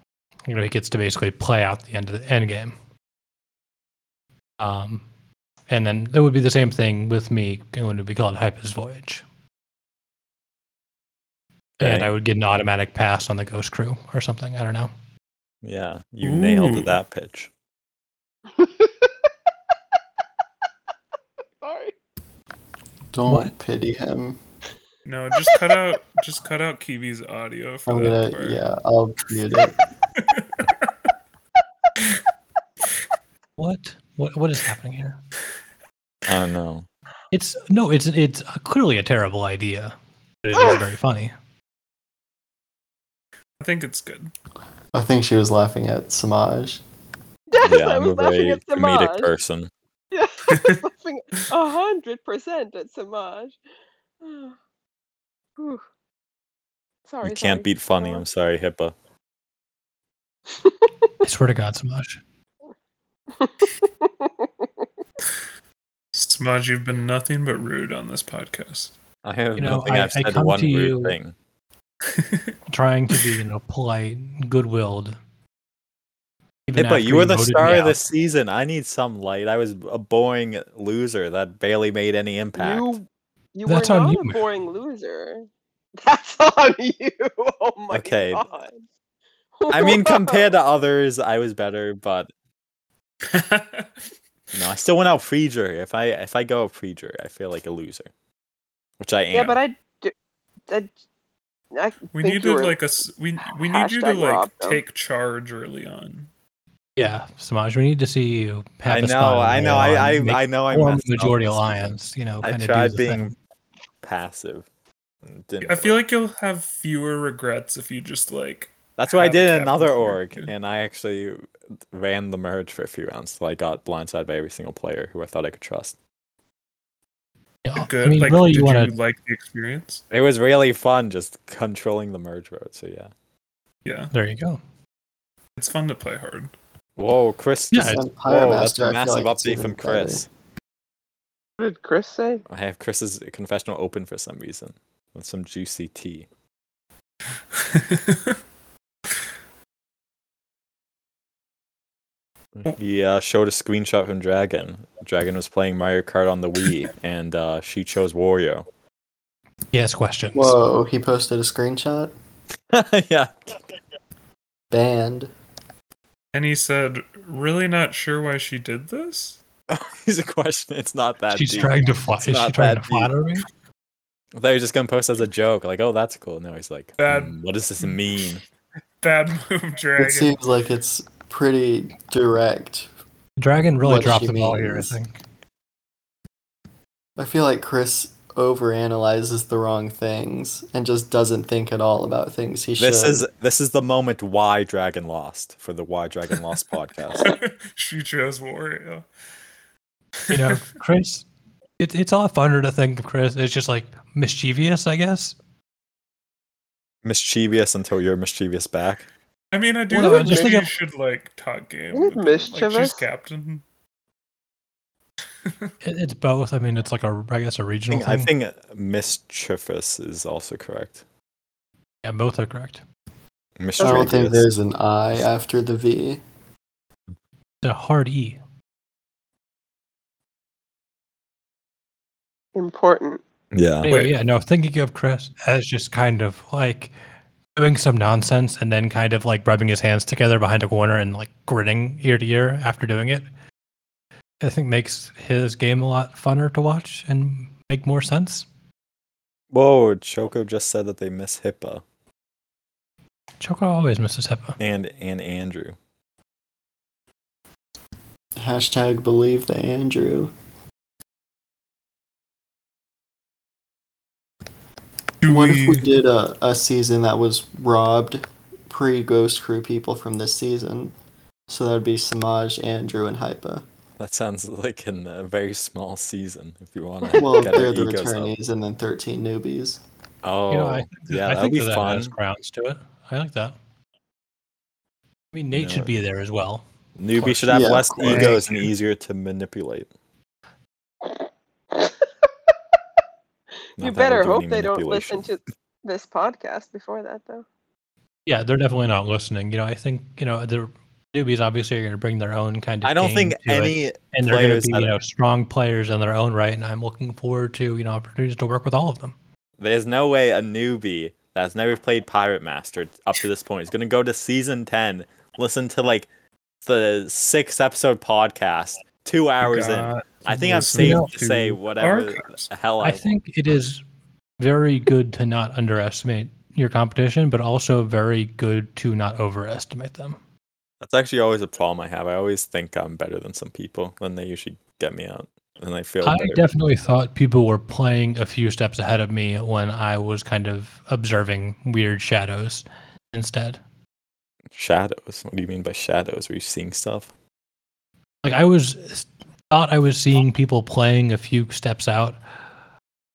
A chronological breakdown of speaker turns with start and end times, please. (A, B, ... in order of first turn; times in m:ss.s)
0:00.5-0:02.8 A
0:04.6-0:05.0 A
0:05.7-0:09.2 A
0:11.8-0:12.1 B
0:11.8-0:14.9 A
0:15.6-0:17.5 B
0:16.2-0:16.9 C
0:18.6-0:19.1 D
0:21.6-0:21.9 D
0:23.1-0:24.4 E
0:23.3-0:23.5 A
0:25.0-0:28.6 C
0:27.9-0:29.8 E
0:30.2-0:30.7 C
0:33.6-0:35.2 A
0:36.3-0:36.9 B
0:37.3-0:41.3 A
0:43.6-0:44.3 C
0:44.9-0:46.8 E
0:47.5-0:49.3 D
0:47.6-0:49.7 B
0:50.1-0:53.6 D
0:50.5-0:50.8 C
0:54.2-0:54.6 D
0:55.6-0:55.8 D
0:57.1-0:58.2 D
0:57.2-0:59.0 B
1:01.2-1:02.2 A
1:03.4-1:04.7 D
1:06.1-1:08.9 C
1:09.2-1:11.3 B
1:09.6-1:11.2 A
1:12.1-1:12.5 C
1:12.7-1:15.2 A
1:16.7-1:18.0 A
1:16.8-1:23.0 B
1:22.6-1:25.5 D
1:23.7-1:24.4 A
1:26.0-1:28.8 D
1:27.9-1:28.4 B
1:29.6-1:30.5 D
1:29.7-1:32.3 B
1:33.3-1:33.9 C
1:34.5-1:38.1 B
1:39.0-1:39.6 B
1:39.3-1:40.1 D
1:41.7-1:42.8 D
1:42.1-1:46.3 C
1:43.4-1:44.8 D
1:47.0-1:53.3 A
1:48.9-1:53.3 B
1:54.0-1:54.7 B
1:55.3-1:56.0 B
1:55.6-2:00.5 C
1:59.0-2:06.0 B
2:07.6-2:08.9 A
2:07.8-2:10.0 C
2:10.1-2:13.1 B
2:13.8-2:14.1 C
2:14.1-2:14.6 A
2:15.6-2:16.5 C
2:17.0-2:20.3 B
2:17.7-2:18.0 A
2:17.8-2:20.2 E
2:21.6-2:22.4 D
2:22.5-2:26.3 B
2:27.6-2:28.3 C
2:32.6-2:38.7 B
2:39.7-2:40.6 A
2:40.3-2:42.1 E
2:42.7-2:43.3 B
2:44.7-2:45.3 E
2:46.3-2:49.4 C
2:49.7-2:53.1 B
2:51.3-2:53.5 A
2:54.4-2:58.4 B
2:57.0-2:57.4 C
2:59.0-3:00.4 C
3:00.0-3:02.9 E
3:03.4-3:05.2 A
3:03.8-3:05.0 E
3:07.2-3:13.2 E
3:12.8-3:17.4 B
3:17.2-3:19.0 C
3:20.3-3:20.6 C
3:20.3-3:21.3 A
3:21.8-3:25.4 A
3:27.0-3:29.1 B
3:29.5-3:33.6 C
3:29.9-3:30.7 A
3:31.9-3:33.0 D
3:35.8-3:38.3 A
3:37.9-3:41.0 B
3:42.0-3:42.8 A
3:43.6-3:44.5 B
3:43.8-3:44.1 D
3:43.8-3:46.2 E
3:47.6-3:48.4 A
3:52.6-3:53.2 D
3:53.5-3:53.9 B
3:53.8-3:56.9 A
3:57.6-4:03.2 A
4:04.4-4:08.5 A
4:09.5-4:11.8 B
4:13.4-4:14.6 A
4:14.6-4:15.8 B
4:18.4-4:20.3 E
4:25.2-4:25.9 C
4:25.2-4:30.9 E
4:31.5-4:33.6 E
4:34.0-4:38.3 B
4:37.2-4:39.8 E
4:40.2-4:42.1 B
4:40.5-4:43.6 A
4:45.3-4:46.6 A
4:45.5-4:45.9 B
4:47.0-4:49.9 B
4:47.2-4:48.6 A
4:47.5-4:48.4 E
4:51.0-4:52.1 D
4:53.8-4:55.3 B
4:53.8-4:57.5 D
4:58.3-5:09.1 A
5:02.8-5:04.9 B
5:09.6-5:16.1 B
5:16.6-5:23.1 B
5:19.4-5:22.5 C
5:20.8-5:21.1 A
5:22.8-5:23.8 A
5:24.4-5:30.2 A
5:30.8-5:36.4 B
5:36.0-5:43.6 A
5:44.5-5:47.1 B
5:48.2-5:52.2 A